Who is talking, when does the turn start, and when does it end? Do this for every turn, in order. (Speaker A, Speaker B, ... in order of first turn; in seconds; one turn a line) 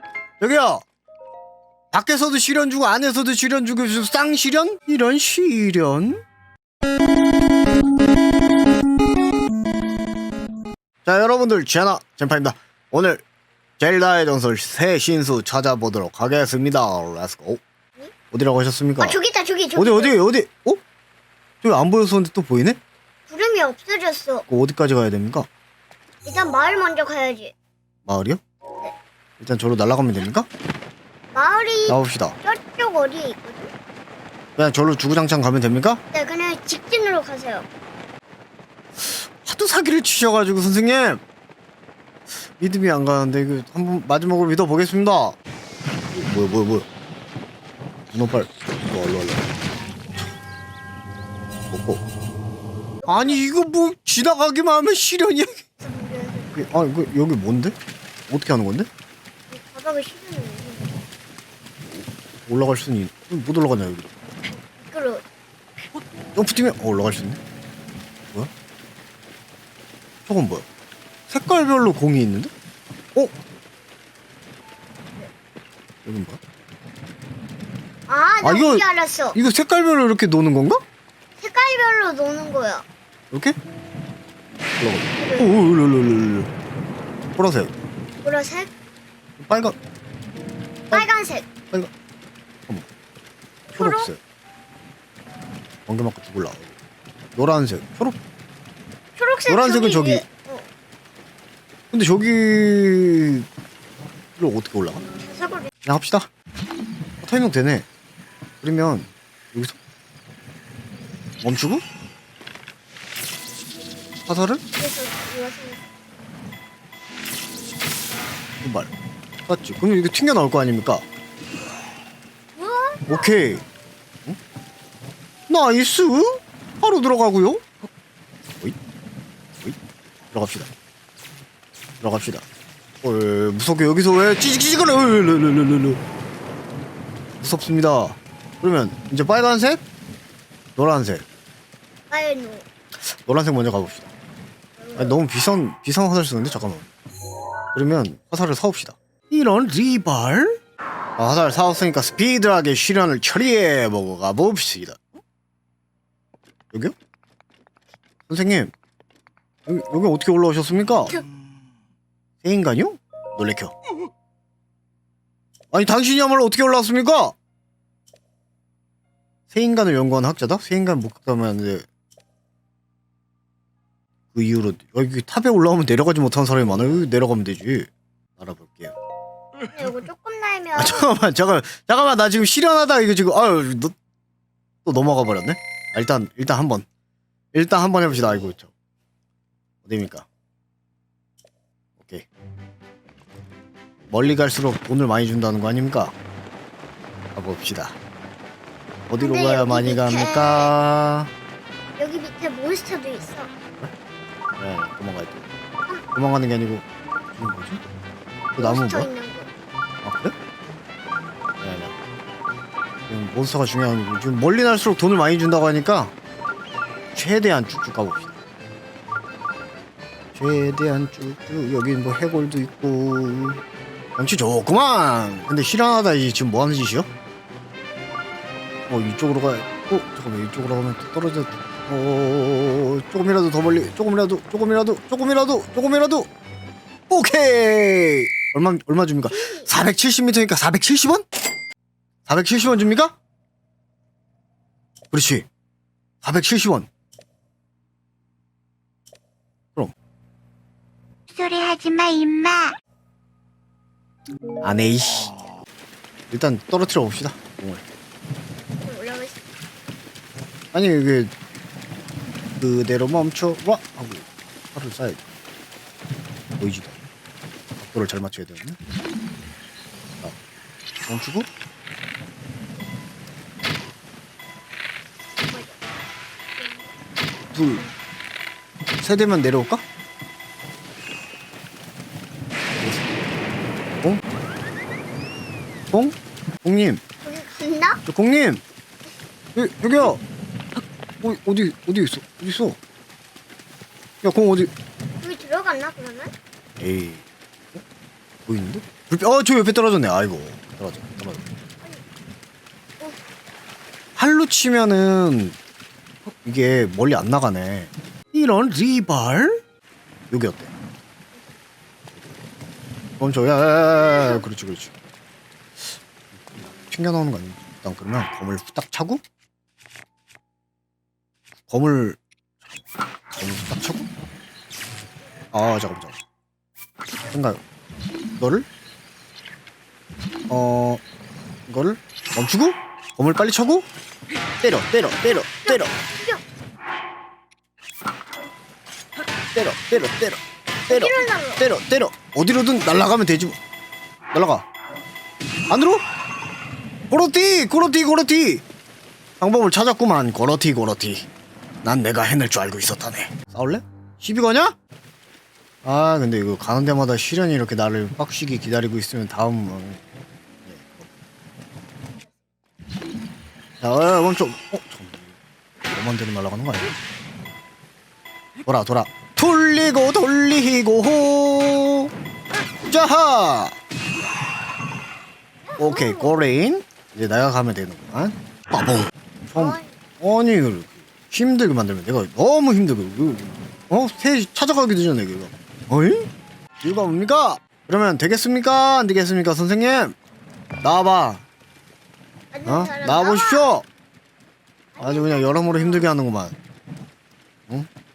Speaker A: 0.4-0.8
Speaker A: 1.9-6.2
Speaker A: 11.1-13.2
Speaker A: 13.8-17.6
Speaker A: 18.3-19.2
Speaker B: 19.0-20.2
Speaker A: 19.8-20.8
Speaker A: 21.6-22.8
Speaker B: 23.3-24.5
Speaker A: 24.5-25.5
Speaker B: 26.2-27.5
Speaker A: 28.1-28.4
Speaker A: 29.4-30.5
Speaker B: 31.3-33.7
Speaker A: 31.9-32.4
Speaker A: 34.6-36.0
Speaker B: 36.1-37.7
Speaker A: 39.0-41.2
Speaker A: 42.6-45.4
Speaker A: 46.1-46.9
Speaker A: 48.1-49.5
Speaker A: 51.7-52.0
Speaker B: 53.0-53.5
Speaker A: 53.1-55.6
Speaker B: 55.8-56.6
Speaker A: 56.5-57.8
Speaker A: 58.3-58.9
Speaker B: 59.5-61.0
Speaker A: 62.5-64.1
Speaker B: 64.5-65.2
Speaker A: 66.3-67.4
Speaker A: 70.3-70.7
Speaker A: 71.3-72.5
Speaker A: 76.0-76.4
Speaker B: 78.1-79.4
Speaker A: 78.4-78.8
Speaker A: 79.3-80.8
Speaker B: 81.4-82.8
Speaker A: 83.3-83.6
Speaker A: 84.8-86.5
Speaker B: 85.2-85.5
Speaker A: 87.4-87.8
Speaker B: 88.2-88.7
Speaker A: 89.4-89.8
Speaker B: 90.9-91.5
Speaker B: 93.7-94.1
Speaker A: 93.8-94.2
Speaker A: 95.9-96.7
Speaker A: 97.3-98.2
Speaker B: 99.2-100.7
Speaker A: 99.5-100.2
Speaker A: 101.9-103.5
Speaker A: 104.4-105.0
Speaker B: 105.3-105.7
Speaker A: 105.8-106.3
Speaker A: 107.2-107.9
Speaker A: 108.6-109.8
Speaker A: 111.4-111.8
Speaker A: 114.3-114.6
Speaker B: 114.8-115.8
Speaker A: 118.6-118.9
Speaker A: 119.5-121.0
Speaker B: 122.6-123.4
Speaker A: 123.1-123.6
Speaker A: 125.5-127.6
Speaker A: 130.3-130.7
Speaker A: 132.0-132.4
Speaker A: 133.0-136.0
Speaker A: 137.4-139.8
Speaker A: 140.8-141.2
Speaker B: 142.1-142.7
Speaker A: 143.0-144.1
Speaker B: 144.8-145.2
Speaker A: 145.0-146.9
Speaker A: 147.7-150.6
Speaker A: 151.2-155.2
Speaker A: 158.3-158.7
Speaker A: 159.7-161.2
Speaker A: 162.4-163.8
Speaker A: 165.7-167.3
Speaker A: 169.5-171.9
Speaker A: 174.3-178.9
Speaker B: 179.7-181.2
Speaker A: 180.8-183.9
Speaker A: 184.8-186.9
Speaker A: 187.5-188.7
Speaker A: 189.8-190.3
Speaker A: 192.0-192.3
Speaker A: 194.1-196.2
Speaker A: 197.3-198.0
Speaker A: 199.1-201.3
Speaker B: 199.2-200.7
Speaker B: 202.0-203.5
Speaker A: 204.6-205.4
Speaker A: 206.1-207.8
Speaker B: 208.6-209.5
Speaker A: 208.6-209.1
Speaker A: 210.0-210.3
Speaker A: 211.6-212.0
Speaker A: 213.1-216.1
Speaker A: 217.2-218.3
Speaker A: 220.3-223.6
Speaker A: 224.2-227.1
Speaker A: 228.9-236.3
Speaker A: 237.1-241.3
Speaker B: 239.3-239.7
Speaker A: 242.3-243.2
Speaker A: 245.1-245.5
Speaker A: 246.2-246.9
Speaker B: 251.4-252.7
Speaker A: 254.6-255.6
Speaker A: 256.3-257.9
Speaker B: 258.8-259.5
Speaker A: 260.7-261.3
Speaker A: 262.6-265.2
Speaker A: 266.6-267.0
Speaker A: 267.8-268.8
Speaker A: 271.1-271.5
Speaker B: 275.4-275.9
Speaker B: 276.6-276.9
Speaker A: 277.5-277.9
Speaker A: 279.0-279.8
Speaker A: 282.7-283.1
Speaker A: 285.9-287.0
Speaker B: 287.2-288.0
Speaker A: 288.1-288.6
Speaker A: 289.6-290.2
Speaker A: 291.2-292.8
Speaker A: 294.2-294.7
Speaker B: 295.2-296.3
Speaker A: 296.8-297.8
Speaker A: 298.5-301.4
Speaker A: 304.2-305.6
Speaker A: 306.4-309.6
Speaker A: 310.3-310.7
Speaker A: 313.2-314.9
Speaker A: 315.8-319.2
Speaker A: 321.7-322.2
Speaker A: 323.4-324.1
Speaker A: 325.5-326.2
Speaker A: 327.3-327.6
Speaker A: 328.4-328.7
Speaker A: 330.5-331.0
Speaker A: 331.7-333.9
Speaker A: 334.6-335.9
Speaker B: 335.6-336.4
Speaker A: 339.5-343.6
Speaker B: 340.9-341.7
Speaker A: 344.3-344.6
Speaker A: 345.7-346.0
Speaker A: 347.1-348.6
Speaker A: 349.4-351.3
Speaker A: 351.8-354.8
Speaker A: 355.9-360.0
Speaker A: 360.7-361.1
Speaker B: 362.2-362.4
Speaker A: 363.8-365.4
Speaker A: 365.9-366.9
Speaker A: 368.7-372.1
Speaker A: 372.9-373.8
Speaker B: 375.7-376.4
Speaker A: 375.8-386.3
Speaker B: 379.6-380.0
Speaker A: 386.8-390.1
Speaker A: 390.8-391.4
Speaker B: 392.5-393.7
Speaker A: 392.7-393.9
Speaker B: 394.9-396.1
Speaker A: 395.0-396.6